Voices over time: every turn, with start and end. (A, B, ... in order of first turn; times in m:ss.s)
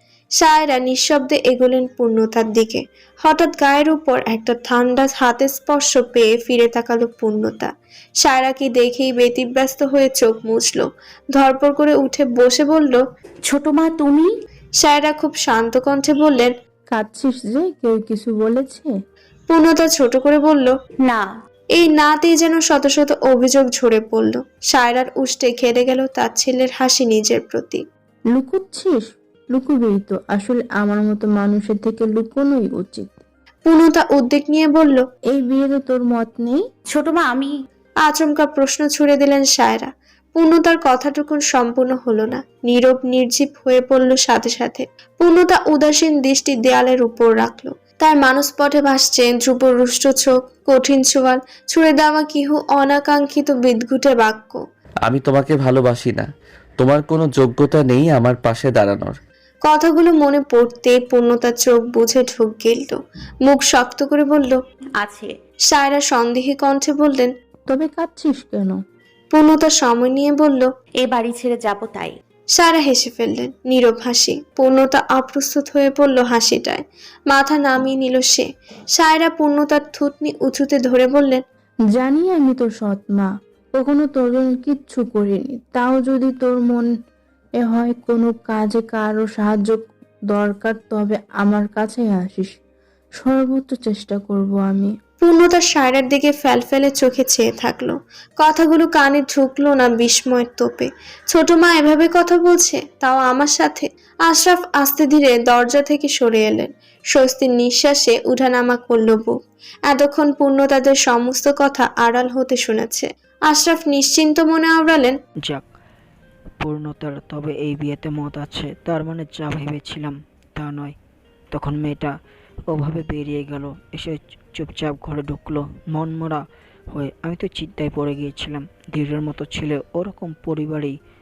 0:00.4-0:07.7 A
0:08.2-0:13.0 A
0:13.5-0:14.3 B
0:14.8-0:16.5 A
0:16.9-0:18.9 C
0:19.5-0:20.7 A
0:21.8-0:27.8 A
0:28.3-0:33.2 C
0:33.7-0:35.0 A
0:35.3-0:36.6 C
0:36.9-0:37.5 B
0:38.1-0:54.6 A
0:55.0-0:56.3 D
0:56.8-0:59.2 D
0:59.7-1:04.6 A
1:05.0-1:05.3 B
1:05.7-1:07.3 A
1:07.7-1:08.8 C
1:09.3-1:10.7 A
1:11.0-1:12.1 B
1:12.6-1:21.4 A
1:21.9-1:26.9 C
1:27.6-1:32.5 C
1:33.2-1:34.9 C
1:35.2-1:49.3 A
1:49.9-1:55.2 A
1:56.6-2:01.0 E
2:01.5-2:02.2 E
2:02.7-2:11.0 E